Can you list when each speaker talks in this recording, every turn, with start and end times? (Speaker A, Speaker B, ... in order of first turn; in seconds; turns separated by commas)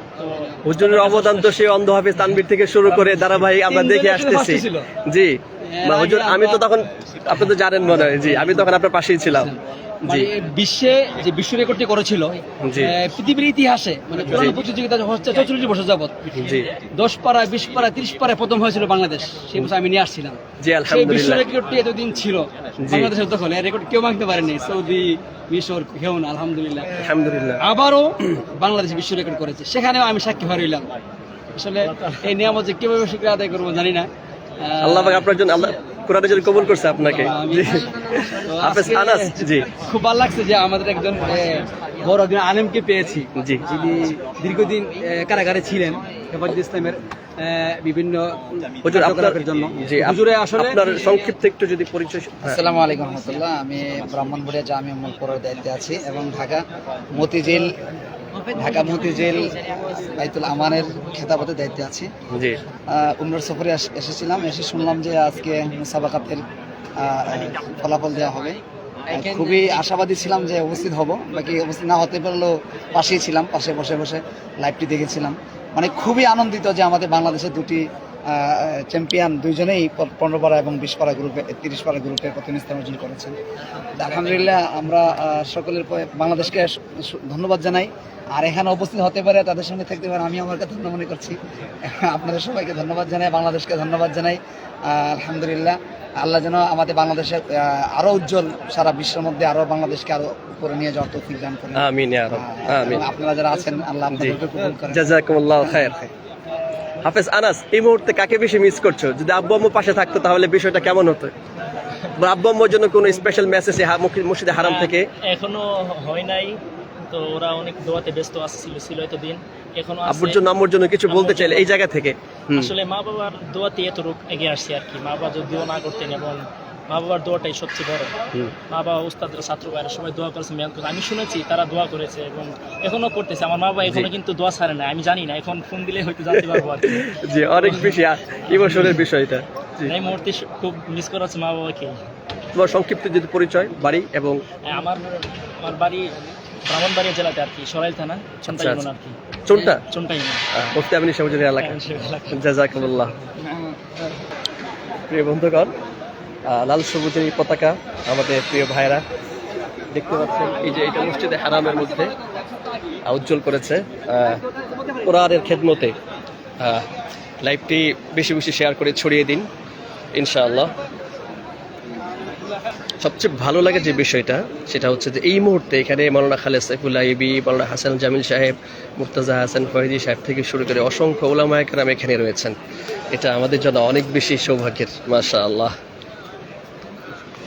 Speaker A: 0.2-1.6, Speaker B: 0.7-9.5, Speaker A: 2.9-3.5, Speaker C: 3.5-4.9, Speaker C: 5.7-6.7, Speaker C: 7.9-16.4, Speaker B: 12.6-12.9, Speaker B: 14.2-14.6, Speaker B: 16.4-16.7, Speaker C: 17.0-27.0, Speaker B: 20.6-21.5, Speaker B: 22.8-23.1, Speaker B: 27.0-27.6, Speaker C: 27.6-30.9, Speaker C: 31.6-34.1, Speaker A: 31.8-32.4, Speaker C: 34.6-35.5, Speaker B: 34.8-39.7, Speaker C: 37.0-50.9, Speaker B: 48.9-52.6, Speaker D: 52.4-56.6, Speaker D: 57.1-57.7, Speaker D: 58.5-62.1, Speaker B: 62.3-62.6, Speaker D: 62.9-66.4, Speaker D: 67.0-77.8, Speaker C: 69.1-70.5, Speaker D: 78.4-83.4, Speaker D: 84.0-91.4, Speaker D: 91.9-106.1, Speaker B: 101.8-103.1, Speaker B: 104.1-104.4, Speaker B: 104.9-105.9, Speaker B: 107.0-111.3, Speaker B: 112.2-115.0, Speaker A: 114.5-120.4, Speaker B: 120.1-122.7, Speaker A: 121.1-121.7, Speaker A: 122.5-128.1, Speaker A: 128.7-138.0, Speaker B: 136.4-139.9, Speaker A: 138.5-139.0, Speaker A: 139.9-142.0, Speaker B: 142.5-144.4, Speaker A: 144.7-146.1, Speaker A: 146.7-149.1, Speaker B: 148.5-148.8, Speaker B: 149.5-149.8, Speaker A: 149.9-150.4, Speaker B: 150.6-151.8, Speaker A: 151.6-152.4, Speaker B: 152.3-153.1, Speaker B: 155.1-155.7, Speaker B: 156.5-159.0, Speaker B: 159.9-162.1, Speaker B: 163.1-164.4, Speaker B: 165.0-165.9, Speaker B: 166.6-166.9, Speaker B: 167.4-169.5, Speaker B: 170.2-170.7, Speaker B: 173.0-182.6, Speaker B: 183.1-185.7